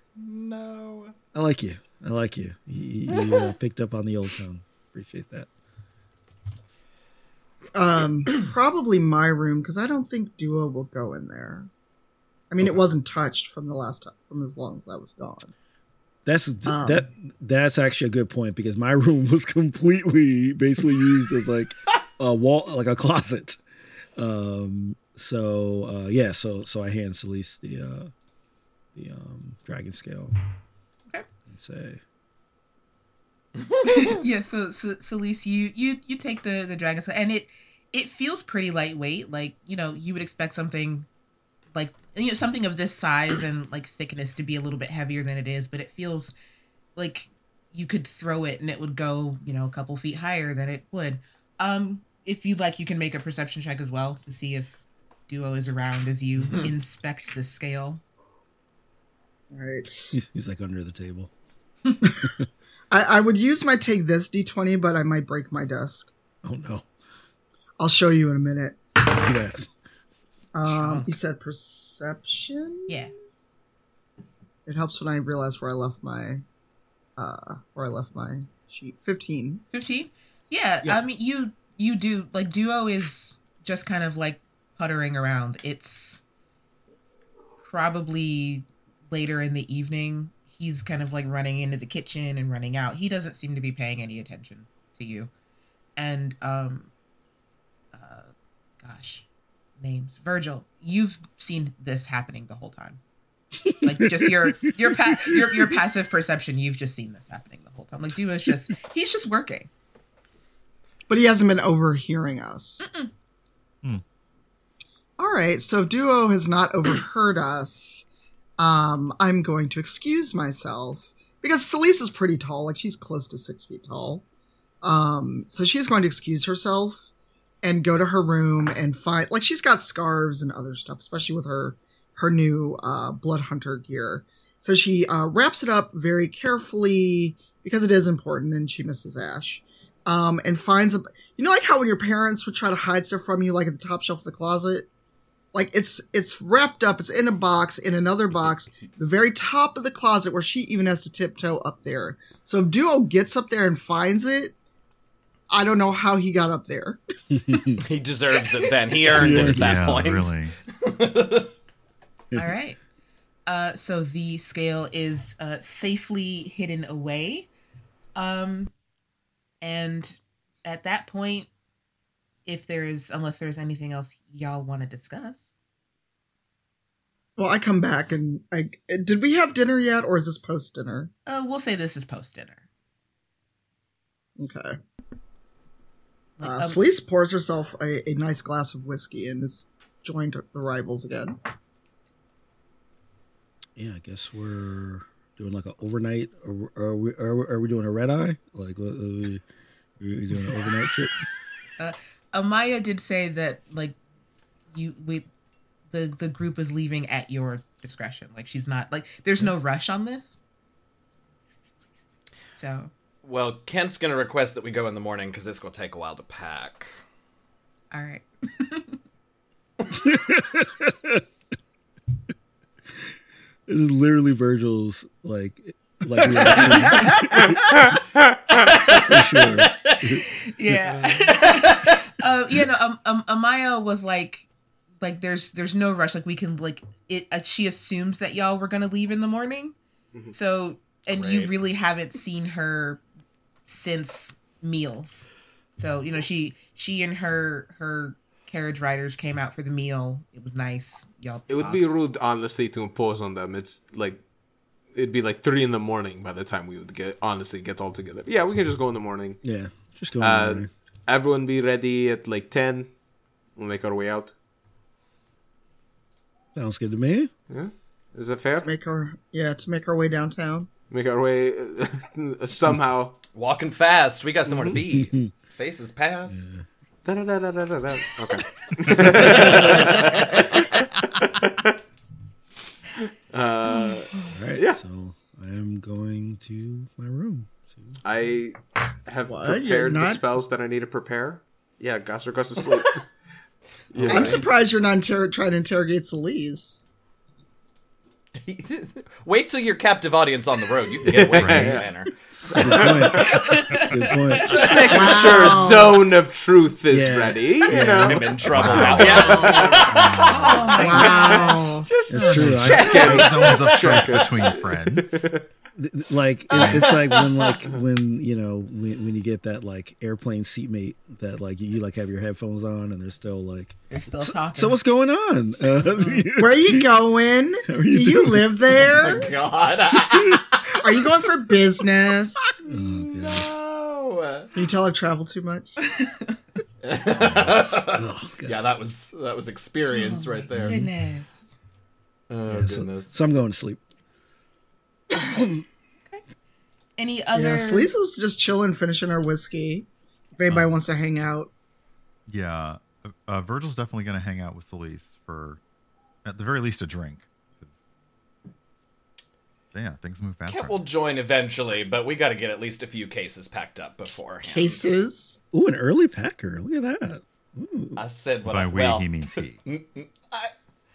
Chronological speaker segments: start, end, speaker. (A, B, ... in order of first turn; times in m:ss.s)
0:00.2-0:01.1 A
0:01.3-0:05.5 B
0:07.7-0:11.7 C
0:12.5-0:15.5 C
0:16.2-0:23.6 B
0:16.7-0:17.0 C
0:24.2-0:28.1 B
0:28.9-0:30.3 B
0:31.5-0:32.0 B
0:33.8-0:41.1 D
0:41.7-0:46.3 D
0:47.0-0:58.0 D
0:59.5-1:00.1 C
1:00.1-1:01.3 B
1:02.2-1:02.4 B
1:02.9-1:06.1 C
1:06.4-1:06.9 B
1:07.8-1:08.8 C
1:09.0-1:09.6 B
1:10.5-1:13.0 C
1:10.6-1:11.2 D
1:14.6-1:16.4 C
1:17.2-1:19.6 C
1:19.7-1:26.2 D
1:27.6-1:35.3 D
1:36.0-1:36.9 D
1:37.9-1:39.2 D
1:39.8-1:43.0 D
1:43.6-1:44.5 B
1:43.8-1:49.7 D
1:45.2-1:45.8 B
1:51.1-1:52.9 C
1:52.8-1:53.1 D
1:55.2-1:58.0 C
1:58.6-2:04.2 C
2:04.8-2:07.0 C
2:07.6-2:24.9 C
2:25.5-2:34.6 C
2:35.5-2:37.0 C
2:37.3-2:37.8 B
2:37.8-2:41.5 A
2:39.1-2:39.8 B
2:39.2-2:40.6 E
2:42.3-2:42.8 D
2:43.5-2:47.5 D
2:48.2-2:48.7 D
2:49.6-2:51.5 D
2:52.4-2:55.5 D
2:57.4-3:01.1 C
3:01.2-3:02.6 D
3:04.4-3:04.8 C
3:06.4-3:06.8 D
3:06.4-3:11.4 C
3:13.8-3:19.4 B
3:20.0-3:21.2 B
3:21.8-3:24.0 D
3:24.7-3:25.3 D
3:25.9-3:30.4 D
3:32.6-3:32.9 D
3:33.2-3:37.0 A
3:37.9-3:39.0 D
3:40.0-3:41.2 B
3:43.7-3:47.8 B
3:46.6-3:46.9 D
3:48.9-3:50.3 B
3:49.0-3:50.0 A
3:50.4-3:54.5 D
3:50.8-3:51.2 F
3:55.0-3:59.7 D
4:00.3-4:03.0 D
4:01.1-4:01.5 A
4:03.7-4:11.9 D
4:11.5-4:14.2 F
4:14.9-4:19.4 F
4:19.4-4:20.7 B
4:20.2-4:22.9 F
4:23.6-4:24.3 F
4:26.5-4:27.3 B
4:27.5-4:28.7 F
4:28.6-4:30.7 C
4:30.9-4:33.2 F
4:33.3-4:36.5 A
4:34.4-4:34.8 F
4:34.8-4:35.3 B
4:36.3-4:36.6 B
4:37.0-4:40.6 F
4:39.0-4:39.9 B
4:39.1-4:40.5 A
4:41.2-4:41.7 F
4:43.3-4:44.8 F
4:44.3-4:48.0 B
4:48.0-4:53.0 F
4:49.3-4:50.2 C
4:53.9-4:54.5 F
4:54.0-4:56.9 C
4:58.4-5:03.1 A
5:01.0-5:01.8 F
5:01.4-5:01.8 E
5:02.3-5:04.6 B
5:02.6-5:03.1 F
5:03.1-5:04.6 D
5:04.5-5:05.8 A
5:04.6-5:09.9 F
5:04.9-5:06.0 C
5:06.9-5:09.1 B
5:07.7-5:10.7 A
5:08.4-5:11.1 E
5:09.0-5:09.8 C
5:09.9-5:10.3 B
5:10.3-5:11.8 D
5:10.7-5:11.9 C
5:10.8-5:15.4 F
5:12.1-5:14.5 B
5:12.1-5:15.2 E
5:15.7-5:26.9 B
5:16.5-5:17.6 A
5:23.9-5:24.8 D
5:25.9-5:26.3 D
5:26.4-5:29.3 C
5:27.7-5:28.9 B
5:28.8-5:30.7 A
5:30.1-5:30.4 B
5:30.7-5:32.6 C
5:32.6-5:34.5 A
5:32.6-5:33.5 B
5:34.5-5:35.7 C
5:35.9-5:36.4 D
5:36.8-5:40.9 A
5:37.1-5:38.6 B
5:39.9-5:41.5 D
5:42.3-5:43.1 A
5:42.5-5:43.8 B
5:45.1-5:45.6 B
5:47.0-5:47.9 D
5:47.3-5:51.5 C
5:52.3-5:55.6 E
5:56.2-5:57.7 E
5:59.7-6:00.8 E
6:00.5-6:04.8 A
6:04.4-6:05.4 C
6:05.5-6:08.0 B
6:08.0-6:10.5 A
6:08.5-6:09.6 E